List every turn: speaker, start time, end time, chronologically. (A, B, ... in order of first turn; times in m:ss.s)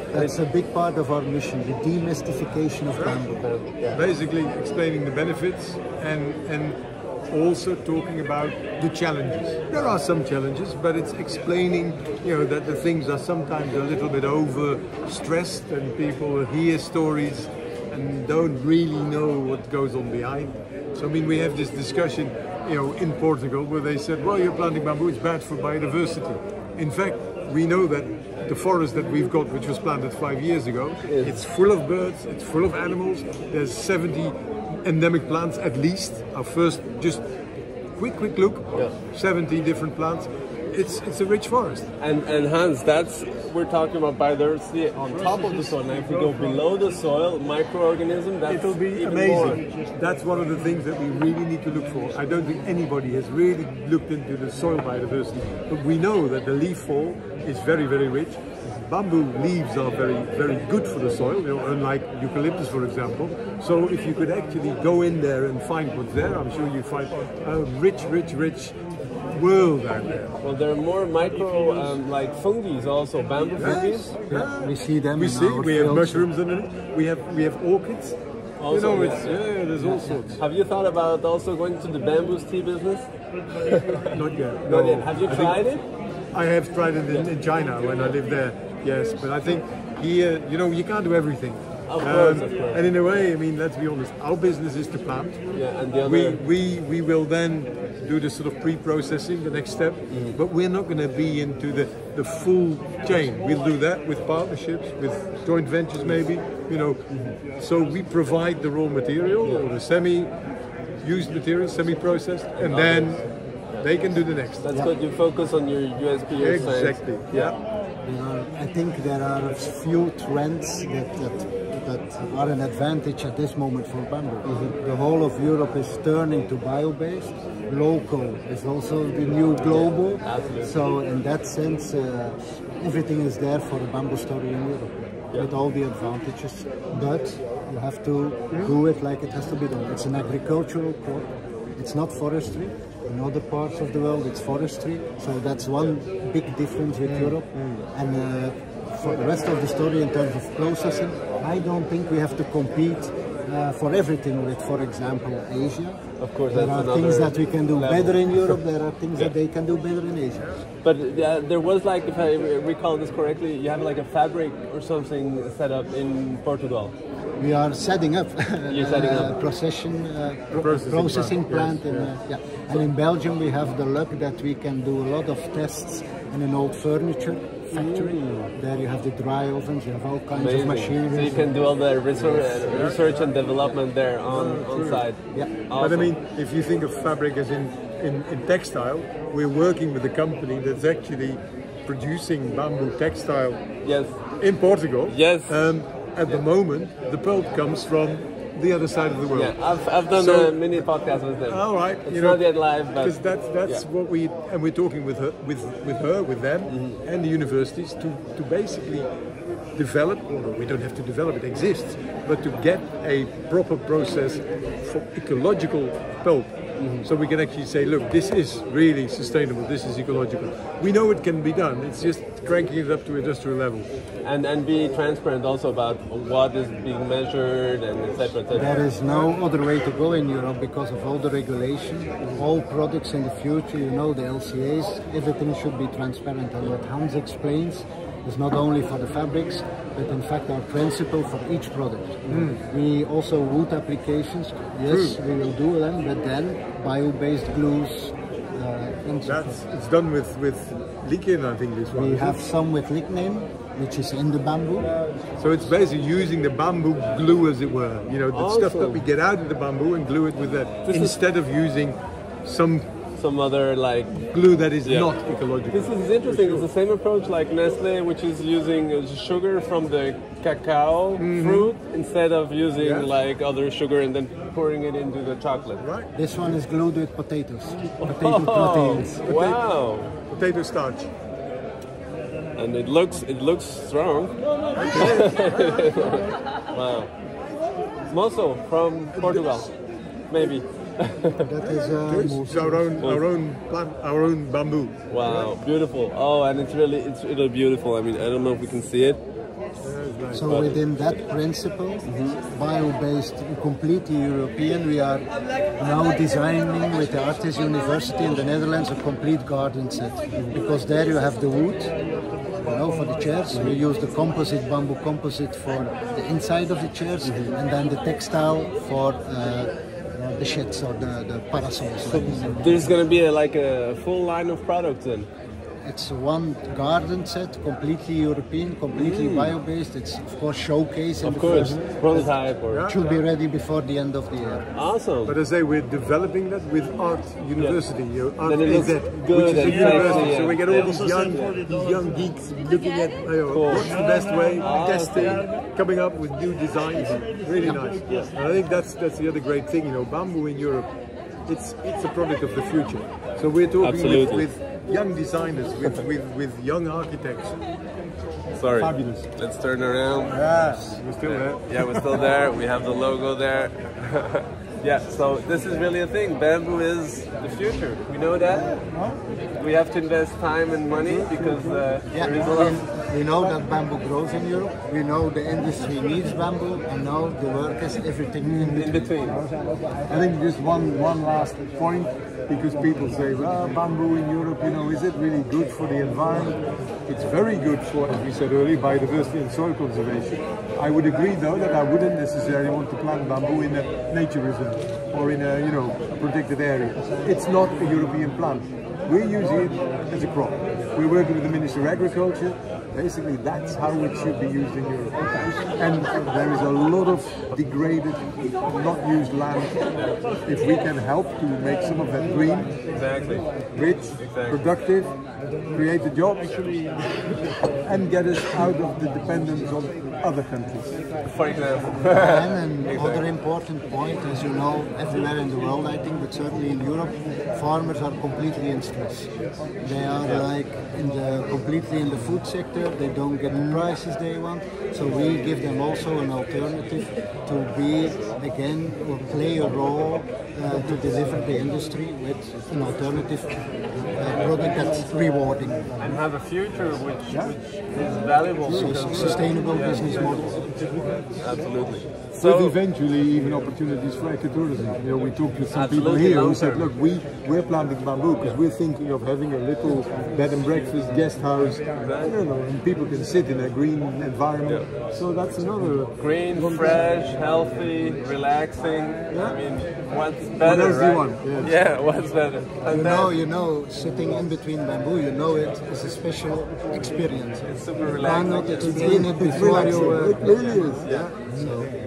0:00.1-0:03.5 A
0:02.9-0:03.2 B
0:03.3-0:04.0 C
0:03.9-0:37.2 B
0:31.0-0:31.4 C
0:38.0-0:41.9 B
0:42.0-0:49.6 C
0:45.1-0:46.6 B
0:48.5-1:08.8 B
1:09.3-1:10.4 B
1:10.4-1:14.2 C
1:13.6-1:18.2 B
1:13.8-1:16.3 A
1:18.6-1:19.5 C
1:18.7-1:20.4 B
1:19.8-1:20.3 A
1:20.4-1:25.8 C
1:24.1-1:25.6 B
1:26.3-1:35.4 B
1:31.9-1:32.9 C
1:35.5-1:36.4 C
1:36.0-1:50.3 B
1:40.1-1:40.4 C
1:47.1-1:47.4 C
1:51.0-1:53.3 B
1:52.6-1:53.9 C
1:53.8-1:54.7 B
1:54.6-1:57.6 C
1:56.4-1:57.6 B
1:58.0-2:36.0 A
2:04.4-2:04.7 C
2:09.6-2:10.8 C
2:18.5-2:18.8 B
2:27.0-2:27.8 B
2:36.2-2:38.6 C
2:36.5-2:40.6 A
2:40.8-2:46.9 C
2:47.4-3:01.6 A
2:48.7-2:49.4 C
2:50.5-2:52.1 B
2:57.7-2:58.5 C
3:00.3-3:06.1 C
3:02.1-3:02.7 A
3:02.7-3:03.4 B
3:04.3-3:05.1 B
3:05.8-3:13.6 B
3:13.8-3:14.2 C
3:14.4-3:19.6 B
3:15.1-3:15.6 C
3:19.3-3:23.8 C
3:20.1-3:20.9 B
3:21.5-3:29.1 B
3:26.7-3:27.0 C
3:29.8-3:43.9 B
3:36.8-3:37.1 C
3:44.2-3:48.8 C
3:48.5-4:09.6 A
4:02.3-4:02.6 B
4:04.9-4:05.2 B
4:09.2-4:12.4 B
4:11.9-4:14.9 A
4:15.4-4:22.9 B
4:18.3-4:19.1 C
4:20.8-4:21.2 C
4:23.2-4:24.2 C
4:24.2-4:26.7 B
4:24.8-4:25.1 C
4:25.7-4:35.8 C
4:31.2-4:31.7 B
4:32.8-4:33.1 B
4:35.8-4:36.1 B
4:36.2-4:39.2 A
4:38.0-4:40.2 C
4:39.2-4:39.6 B
4:40.3-4:41.1 B
4:42.6-4:44.4 C
4:44.8-4:46.2 B
4:44.9-4:47.1 C
4:48.1-4:49.7 C
4:49.1-4:49.7 B
4:50.3-4:51.4 C
4:51.5-4:52.9 A
4:51.6-4:55.4 B
4:55.1-4:59.2 C
4:59.8-5:00.5 B
5:00.3-5:11.9 A
5:00.4-5:01.2 C
5:02.0-5:02.4 C
5:12.6-5:23.0 A
5:13.5-5:13.8 C
5:17.2-5:17.5 C
5:22.0-5:25.3 C
5:25.8-5:34.7 A
5:28.9-5:29.6 C
5:31.2-5:32.9 C
5:32.7-5:33.2 B
5:34.7-5:35.4 C
5:35.3-5:50.9 B
5:37.6-5:37.8 C
5:38.4-5:41.6 C
5:43.5-5:44.0 C
5:44.6-5:45.5 C
5:51.5-5:57.6 B
5:53.8-5:54.5 C
5:58.5-6:00.4 C
5:58.8-5:59.3 B
6:00.3-6:02.2 B
6:01.2-6:08.8 C
6:08.8-6:09.2 B
6:09.5-6:12.8 C
6:11.1-6:11.8 B
6:12.1-6:19.1 A
6:18.4-6:19.4 B
6:18.8-6:19.5 C
6:20.1-6:49.8 B
6:49.9-6:50.3 C
6:50.4-6:52.8 B
6:52.9-6:54.7 C
6:53.7-6:55.2 B
6:55.7-6:56.8 B
6:57.8-7:00.9 B
7:01.2-7:03.2 C
7:02.1-7:09.3 A
7:09.8-7:26.0 A
7:24.3-7:24.6 C
7:26.0-7:32.8 C
7:27.3-7:27.6 B
7:28.6-7:29.5 B
7:28.7-7:30.6 A
7:32.4-7:47.0 B
7:35.7-7:36.9 C
7:42.0-7:42.4 C
7:46.2-7:53.3 C
7:49.3-7:49.6 B
7:50.6-7:51.8 B
7:52.9-8:02.0 A
7:57.7-8:01.3 C
7:58.8-8:01.4 B